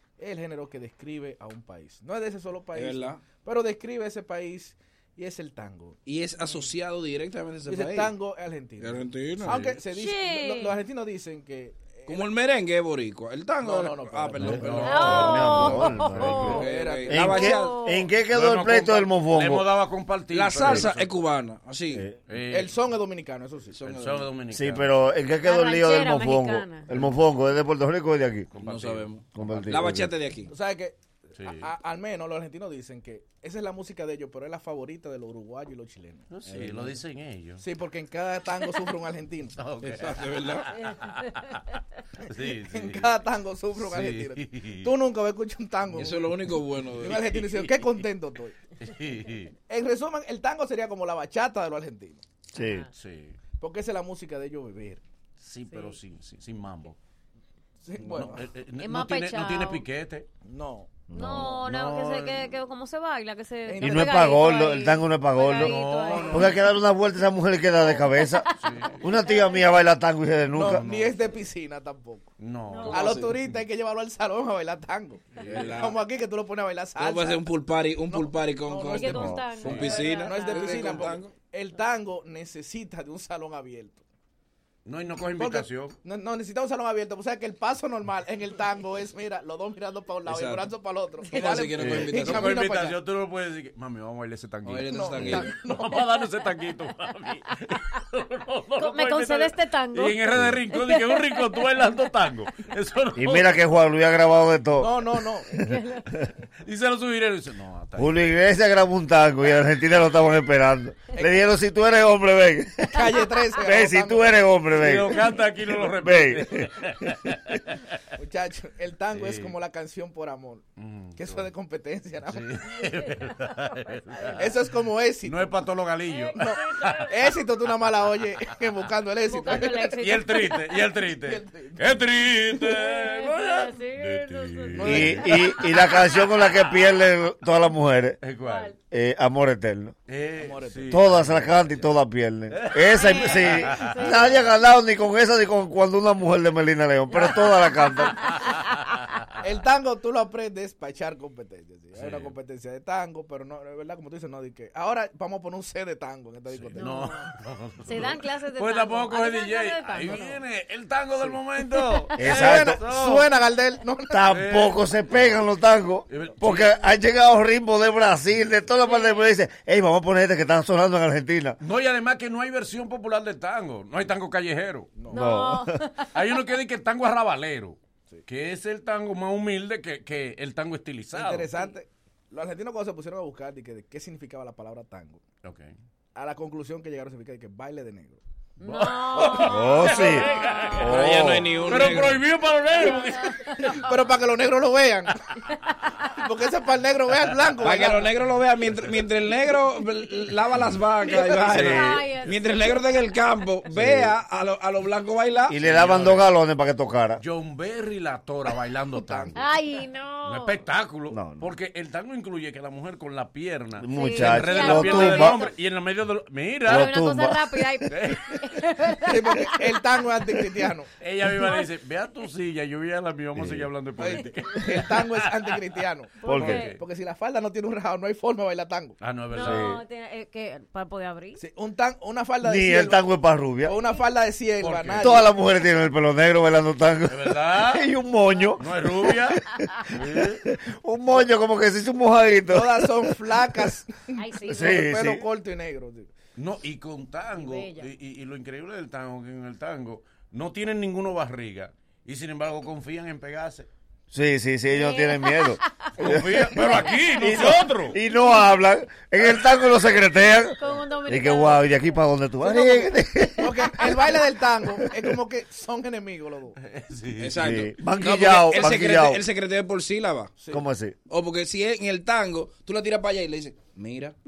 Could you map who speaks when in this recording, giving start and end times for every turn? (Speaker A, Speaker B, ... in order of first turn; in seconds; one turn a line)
Speaker A: 0.2-6.0
Speaker B: 2.8-3.2
Speaker B: 6.1-8.1
Speaker A: 7.7-12.3
Speaker B: 8.8-9.6
Speaker C: 9.4-9.8
Speaker D: 9.9-10.8
Speaker B: 12.1-17.8
Speaker A: 13.6-14.8
Speaker C: 14.4-16.3
Speaker E: 14.6-19.7
Speaker D: 14.8-16.6
Speaker A: 16.5-17.2
Speaker D: 17.2-18.1
Speaker C: 18.3-21.1
Speaker B: 20.3-22.1
Speaker C: 22.3-22.8
Speaker A: 22.5-23.8
Speaker B: 23.7-24.3
Speaker C: 23.8-24.9
Speaker E: 24.5-28.5
Speaker D: 25.4-26.9
Speaker C: 28.5-29.6
Speaker B: 28.6-30.5
Speaker E: 29.4-30.1
Speaker A: 30.5-36.3
Speaker C: 31.4-31.7
Speaker C: 36.3-37.6
Speaker B: 36.5-37.0
Speaker A: 37.6-39.6
Speaker C: 39.5-41.6
Speaker B: 39.8-40.7
Speaker C: 42.2-43.1
Speaker A: 42.7-46.3
Speaker C: 43.8-44.9
Speaker B: 45.9-47.2
Speaker A: 47.0-48.6
Speaker C: 47.1-47.9
Speaker C: 48.8-49.5
Speaker A: 49.7-52.2
Speaker E: 52.5-52.9
Speaker D: 52.6-52.9
Speaker C: 52.9-53.4
Speaker A: 53.6-55.0
Speaker C: 55.4-57.0
Speaker D: 55.7-56.0
Speaker A: 57.8-58.5
Speaker C: 58.0-60.3
Speaker D: 58.8-59.8
Speaker A: 60.4-61.0
Speaker E: 61.1-61.5
Speaker D: 61.1-66.5
Speaker C: 61.1-62.6
Speaker A: 63.7-64.1
Speaker E: 63.8-68.5
Speaker C: 65.4-66.6
Speaker D: 68.0-69.7
Speaker C: 68.6-69.1
Speaker E: 69.0-70.8
Speaker A: 70.5-72.3
Speaker C: 70.6-71.2
Speaker C: 72.4-73.5
Speaker D: 72.7-73.1
Speaker A: 72.9-77.5
Speaker C: 75.4-75.8
Speaker B: 75.5-76.0
Speaker B: 77.0-81.3
Speaker A: 78.1-84.0
Speaker D: 78.8-81.1
Speaker C: 79.6-80.2
Speaker C: 84.8-86.0
Speaker A: 85.4-93.0
Speaker B: 90.3-90.7
Speaker B: 91.3-92.5
Speaker C: 91.8-103.6
Speaker B: 94.7-95.5
Speaker A: 94.9-95.9
Speaker D: 98.8-100.2
Speaker D: 100.7-101.4
Speaker E: 103.2-104.9
Speaker A: 104.8-105.5
Speaker D: 105.6-106.0
Speaker C: 106.7-108.3
Speaker E: 108.0-113.0
Speaker A: 113.0-114.4
Speaker E: 113.6-115.2
Speaker C: 114.7-117.8
Speaker E: 115.8-116.9
Speaker A: 118.2-120.7
Speaker C: 119.1-119.5
Speaker C: 120.8-121.5
Speaker A: 121.2-122.5
Speaker C: 122.3-124.5
Speaker A: 124.4-125.5
Speaker C: 125.2-127.1
Speaker D: 126.1-127.0
Speaker A: 126.4-130.0
Speaker D: 129.2-130.6
Speaker C: 129.9-135.6
Speaker A: 131.1-132.0
Speaker D: 132.6-135.7
Speaker A: 134.8-135.1
Speaker E: 134.8-138.2
Speaker C: 138.2-138.7
Speaker D: 138.4-138.7
Speaker E: 138.9-139.9
Speaker C: 140.1-141.9
Speaker A: 140.4-141.0
Speaker E: 140.9-148.3
Speaker C: 142.5-144.4
Speaker D: 142.9-144.4
Speaker A: 149.4-157.0
Speaker C: 151.9-152.3
Speaker C: 156.5-163.3
Speaker D: 156.8-157.3
Speaker D: 157.8-160.4
Speaker D: 161.6-162.1
Speaker E: 162.2-162.8
Speaker A: 162.3-164.2
Speaker E: 164.1-171.6
Speaker C: 164.3-165.4
Speaker C: 166.1-166.8
Speaker D: 168.8-169.3
Speaker C: 171.6-174.9
Speaker A: 175.0-175.3
Speaker D: 175.1-176.1
Speaker E: 175.1-175.7
Speaker C: 176.1-181.5
Speaker A: 181.1-185.2
Speaker C: 185.4-185.7
Speaker A: 186.2-188.2
Speaker D: 188.6-190.8
Speaker C: 188.6-193.4
Speaker E: 189.4-191.5
Speaker B: 190.9-192.2
Speaker D: 192.8-193.8
Speaker A: 193.7-195.2
Speaker A: 196.2-198.1
Speaker B: 197.6-205.6
Speaker D: 201.2-202.8
Speaker E: 201.5-202.0
Speaker E: 203.7-204.1
Speaker E: 205.5-207.2
Speaker C: 205.6-206.3
Speaker C: 207.2-209.5
Speaker A: 208.9-209.4
Speaker D: 209.3-210.6
Speaker C: 210.2-217.0
Speaker E: 211.1-211.5
Speaker E: 213.8-215.5
Speaker D: 213.9-215.5
Speaker E: 216.7-217.4
Speaker D: 216.7-219.8
Speaker C: 217.9-218.4
Speaker A: 219.1-220.9
Speaker C: 221.0-225.6
Speaker D: 221.4-221.7
Speaker E: 223.4-223.7
Speaker A: 224.0-226.2
Speaker D: 226.2-226.8
Speaker E: 226.3-226.6
Speaker C: 226.3-226.8
Speaker A: 226.7-229.0
Speaker C: 229.0-229.8
Speaker D: 229.3-231.4
Speaker E: 229.4-229.7
Speaker A: 231.4-233.0
Speaker E: 232.4-233.8
Speaker A: 233.6-235.3
Speaker C: 234.6-235.3
Speaker E: 235.0-239.4
Speaker C: 237.1-237.9
Speaker C: 238.6-240.4
Speaker E: 239.9-242.9
Speaker A: 242.5-246.1
Speaker D: 244.2-244.9
Speaker E: 244.5-245.2
Speaker C: 246.4-253.7
Speaker D: 247.4-247.9
Speaker E: 254.1-264.0
Speaker D: 254.7-255.6
Speaker C: 256.0-258.0
Speaker D: 260.6-261.9
Speaker A: 263.4-266.6
Speaker C: 266.6-267.5
Speaker B: 267.2-270.4
Speaker E: 267.4-269.2
Speaker E: 270.5-270.9
Speaker B: 271.1-274.2